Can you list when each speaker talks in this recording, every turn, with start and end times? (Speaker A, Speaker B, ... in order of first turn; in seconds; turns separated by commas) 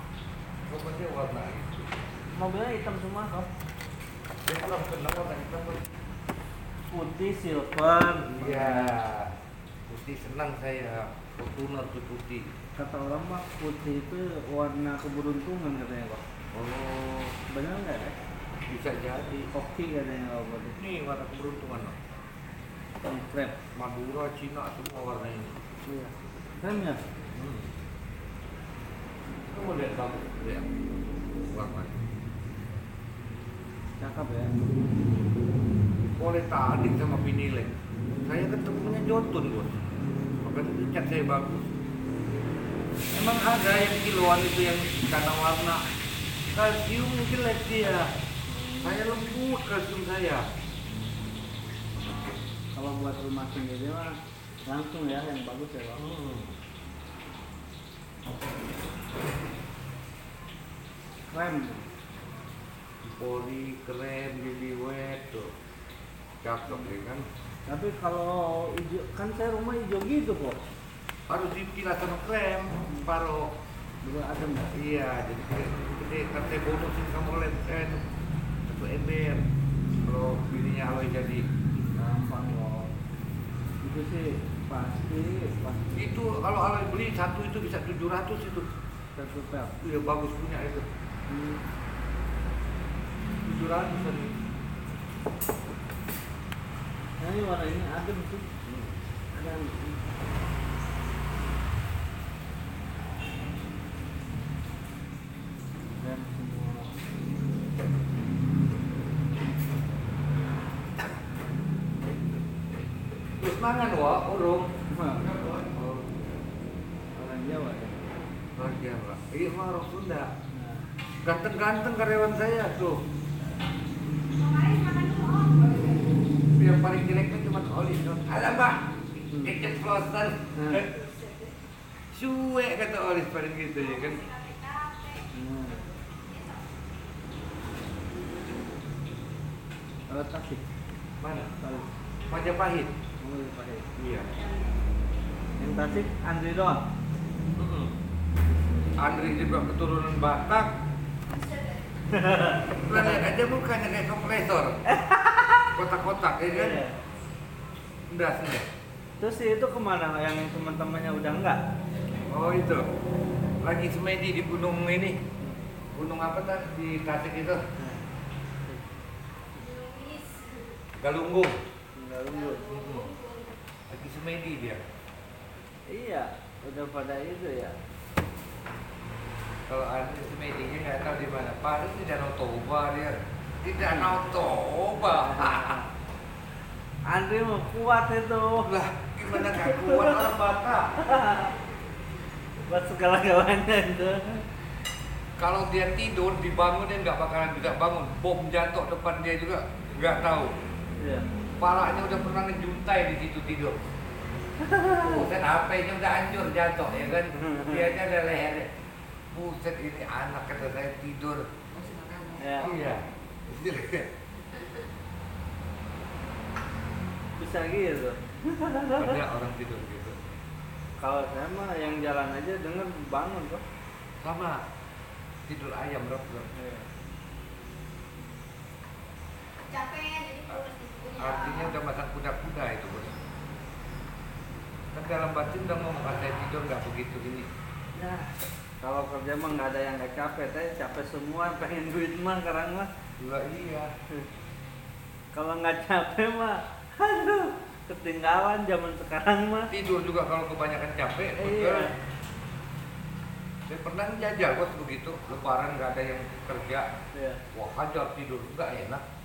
Speaker A: 0.7-1.9, Speaker B: 2.3-3.5, Speaker A: 4.3-5.9, Speaker B: 6.9-9.0, Speaker A: 8.2-9.3, Speaker A: 9.9-12.5, Speaker B: 12.8-16.2, Speaker A: 16.5-17.4, Speaker B: 17.5-18.1, Speaker A: 18.7-19.5, Speaker B: 19.5-20.8, Speaker A: 20.8-21.9, Speaker B: 23.0-23.6, Speaker A: 23.7-25.5, Speaker B: 25.9-27.0, Speaker A: 27.3-27.7, Speaker A: 29.5-30.7, Speaker A: 31.5-32.0, Speaker B: 34.0-34.5, Speaker A: 36.2-39.8, Speaker A: 40.4-41.7, Speaker A: 43.1-45.8, Speaker A: 46.5-48.1, Speaker B: 48.5-49.0, Speaker A: 48.8-50.5, Speaker B: 52.7-56.0, Speaker A: 55.9-56.5, Speaker B: 61.3-61.9, Speaker A: 63.0-65.5, Speaker A: 66.4-67.2, Speaker B: 67.7-70.6, Speaker A: 71.3-73.5, Speaker B: 74.0-74.7, Speaker A: 74.6-78.0, Speaker A: 78.6-79.5, Speaker A: 80.0-81.5, Speaker B: 81.9-82.9, Speaker B: 83.8-86.0, Speaker A: 85.9-88.7, Speaker B: 89.1-89.7, Speaker A: 89.8-90.9, Speaker B: 91.3-91.6, Speaker A: 93.4-94.3, Speaker B: 97.2-98.5, Speaker A: 98.7-98.9, Speaker B: 99.3-100.0, Speaker B: 106.0-107.0, Speaker A: 113.4-114.7, Speaker B: 114.9-115.2, Speaker A: 115.2-116.1, Speaker B: 117.1-118.0, Speaker A: 118.6-120.3, Speaker B: 120.5-120.8, Speaker A: 121.2-123.0, Speaker C: 124.3-126.2, Speaker A: 126.5-130.9, Speaker B: 130.5-130.8, Speaker C: 130.8-131.5, Speaker A: 132.1-134.3, Speaker C: 133.8-136.7, Speaker B: 135.3-135.8, Speaker B: 140.1-140.6, Speaker A: 141.2-141.5, Speaker B: 141.3-141.8, Speaker A: 142.3-142.9, Speaker B: 143.2-143.9, Speaker A: 144.0-144.3, Speaker C: 144.3-144.8, Speaker B: 145.6-146.8, Speaker A: 147.5-147.9, Speaker A: 149.0-150.7, Speaker C: 151.3-151.9, Speaker B: 152.1-153.2, Speaker A: 152.7-154.8, Speaker B: 154.9-155.7, Speaker A: 155.7-156.8, Speaker B: 156.4-156.9, Speaker A: 158.1-158.7, Speaker B: 159.2-161.6, Speaker A: 162.3-162.8, Speaker A: 163.6-165.2, Speaker A: 165.9-167.7, Speaker C: 169.5-170.7, Speaker A: 171.0-171.6, Speaker B: 171.9-172.7, Speaker C: 172.3-173.6, Speaker A: 172.7-173.1, Speaker A: 173.9-174.8, Speaker B: 175.9-177.8, Speaker A: 179.7-185.9, Speaker B: 183.8-184.1, Speaker B: 185.1-185.8, Speaker B: 187.1-188.7, Speaker A: 188.6-191.0, Speaker B: 189.3-190.2, Speaker B: 191.0-191.5, Speaker B: 192.7-194.4, Speaker A: 195.4-200.5, Speaker B: 201.0-201.2, Speaker A: 201.6-203.8, Speaker B: 204.6-205.3, Speaker A: 204.9-208.7, Speaker B: 207.3-207.8, Speaker A: 209.3-214.1, Speaker B: 212.4-212.7, Speaker B: 217.4-219.1, Speaker A: 218.9-220.2, Speaker B: 221.0-223.6, Speaker A: 224.2-224.6, Speaker A: 225.5-226.5, Speaker B: 226.5-226.8, Speaker C: 229.6-231.8, Speaker A: 231.2-233.2, Speaker A: 234.9-237.5, Speaker B: 237.9-242.9, Speaker A: 243.2-243.9, Speaker B: 245.3-249.7, Speaker A: 249.7-251.9, Speaker B: 251.4-251.9, Speaker A: 253.7-256.9, Speaker B: 257.1-257.4, Speaker A: 257.5-259.0